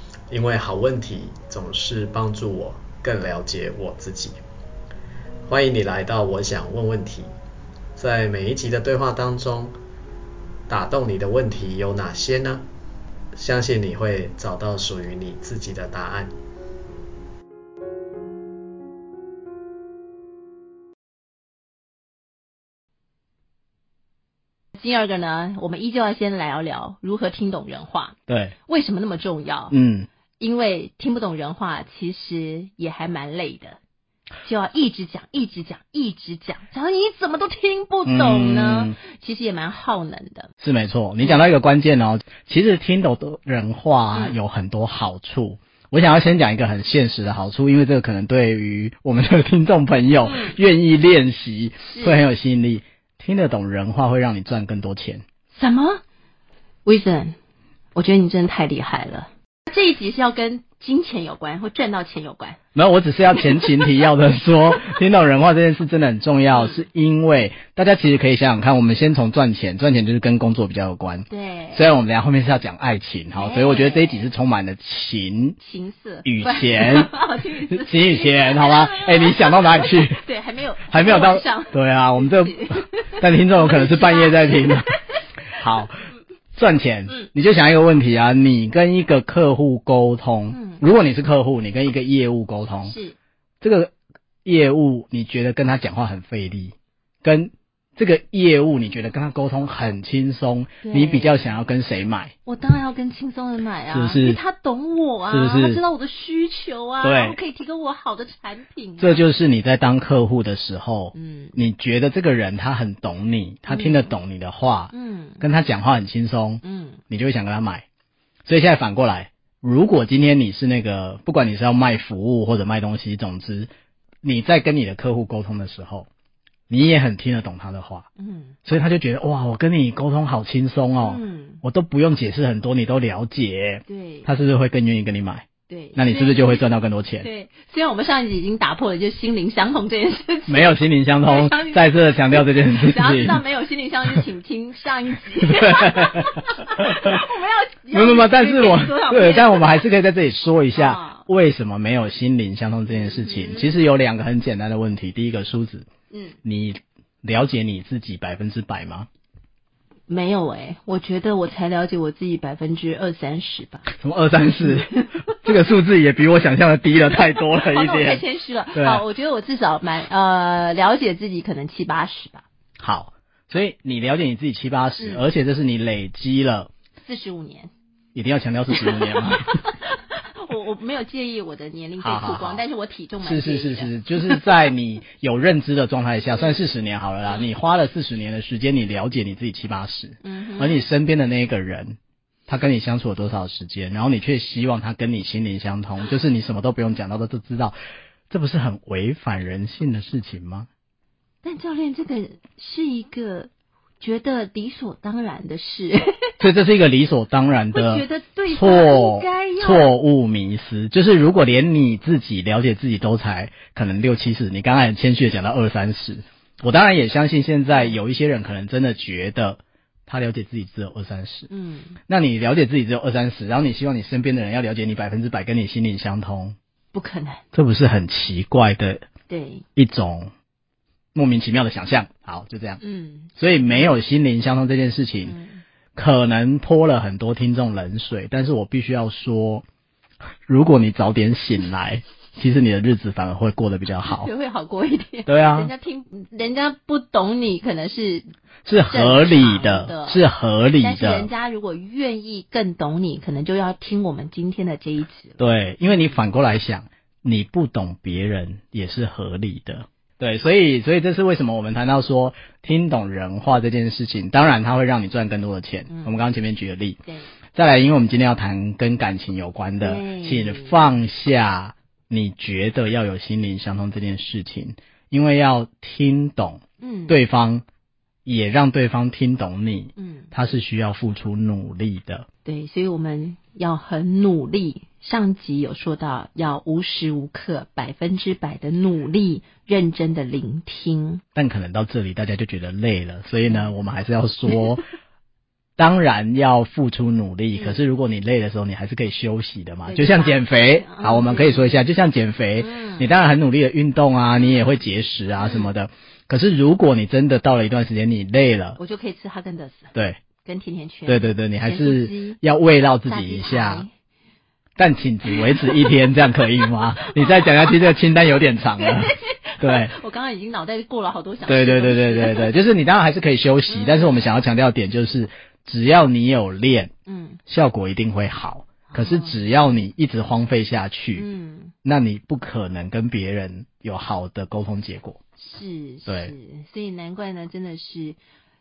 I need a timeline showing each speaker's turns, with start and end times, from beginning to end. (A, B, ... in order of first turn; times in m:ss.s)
0:00.3-0:04.4 A
0:05.5-0:07.3 A
0:08.0-0:09.7 A
0:10.7-0:12.6 A
0:13.4-0:16.3 A
0:24.7-0:28.2 B
0:28.3-0:28.5 C
0:28.7-0:29.7 B
0:29.7-0:30.1 C
0:30.4-0:33.8 B
0:34.4-0:40.5 B
0:38.0-0:39.0 C
0:40.6-0:55.2 C
0:50.2-0:50.6 B
0:51.9-0:52.2 B
0:55.5-0:56.0 B
0:56.8-0:57.4 B
0:57.9-1:02.6 B
1:02.7-1:15.6 C
1:11.3-1:11.8 B
1:13.3-1:14.3 B
1:15.6-1:25.2 B
1:16.2-1:17.1 C
1:17.7-1:20.2 C
1:20.9-1:24.9 C
1:25.6-1:25.9 C
1:26.5-1:33.0 C
1:30.5-1:30.8 B
1:32.8-1:33.2 B
1:33.6-1:33.9 C
1:34.4-1:42.3 C
1:40.8-1:41.5 B
1:42.4-1:49.3 B
1:43.9-1:44.4 C
1:45.3-1:45.8 C
1:47.0-1:47.4 C
1:49.0-1:57.8 C
1:51.1-1:51.6 B
1:53.7-1:54.0 B
1:54.9-1:55.4 B
1:56.6-1:57.0 B
1:58.4-2:03.7 C
2:04.2-2:06.1 C
2:06.7-2:08.1 C
2:08.2-2:08.6 B
2:08.6-2:17.3 C
2:11.0-2:11.6 B
2:13.9-2:14.3 B
2:15.7-2:16.6 B
2:17.2-2:29.8 B
2:20.5-2:23.4 C
2:25.4-2:27.2 C
2:27.9-2:35.9 C
2:30.7-2:31.2 B
2:32.9-2:33.7 B
2:36.1-2:36.4 B
2:36.4-2:39.1 C
2:40.1-2:43.9 B
2:43.9-2:48.2 C
2:44.6-2:45.4 B
2:47.3-2:52.4 B
2:48.7-2:49.0 C
2:52.8-2:56.7 C
2:57.0-2:57.7 B
2:58.1-2:59.5 C
2:58.7-3:04.5 B
3:02.0-3:02.6 C
3:03.2-3:12.0 C
3:10.2-3:10.8 B
3:12.5-3:17.7 C
3:18.3-3:20.7 C
3:21.4-3:26.3 B
3:26.4-3:41.5 C
3:27.7-3:29.9 B
3:41.5-3:42.0 B
3:42.1-3:46.6 C
3:46.9-3:47.4 B
3:47.5-3:49.0 C
3:49.3-3:49.6 B
3:49.8-3:50.3 C
3:51.1-3:52.8 C
3:52.8-3:53.9 B
3:53.4-3:55.3 C
3:55.2-3:55.6 B
3:55.9-3:59.6 C
4:00.5-4:04.3 C
4:04.0-4:08.2 B
4:05.3-4:05.7 C
4:08.6-4:11.3 C
4:08.9-4:10.2 B
4:10.8-4:15.4 B
4:15.4-4:27.0 C
4:27.5-4:37.6 C
4:29.8-4:30.8 B
4:36.8-4:37.2 B
4:38.2-4:42.2 C
4:40.0-4:40.3 B
4:42.4-4:51.2 B
4:51.4-4:54.8 C
4:55.8-5:08.8 C
4:59.8-5:01.8 B
5:02.6-5:03.1 B
5:05.4-5:05.7 B
5:08.8-5:09.9 B
5:09.9-5:10.2 C
5:10.4-5:12.4 B
5:11.1-5:13.8 C
5:13.0-5:13.9 B
5:14.8-5:19.9 C
5:15.3-5:16.0 B
5:17.0-5:17.9 B
5:18.8-5:22.5 B
5:21.5-5:26.9 C
5:23.7-5:24.2 B
5:27.1-5:27.4 B
5:27.5-5:31.3 C
5:28.9-5:29.4 B
5:31.1-5:31.7 B
5:31.8-5:35.2 C
5:35.4-5:38.2 B
5:36.1-5:36.3 C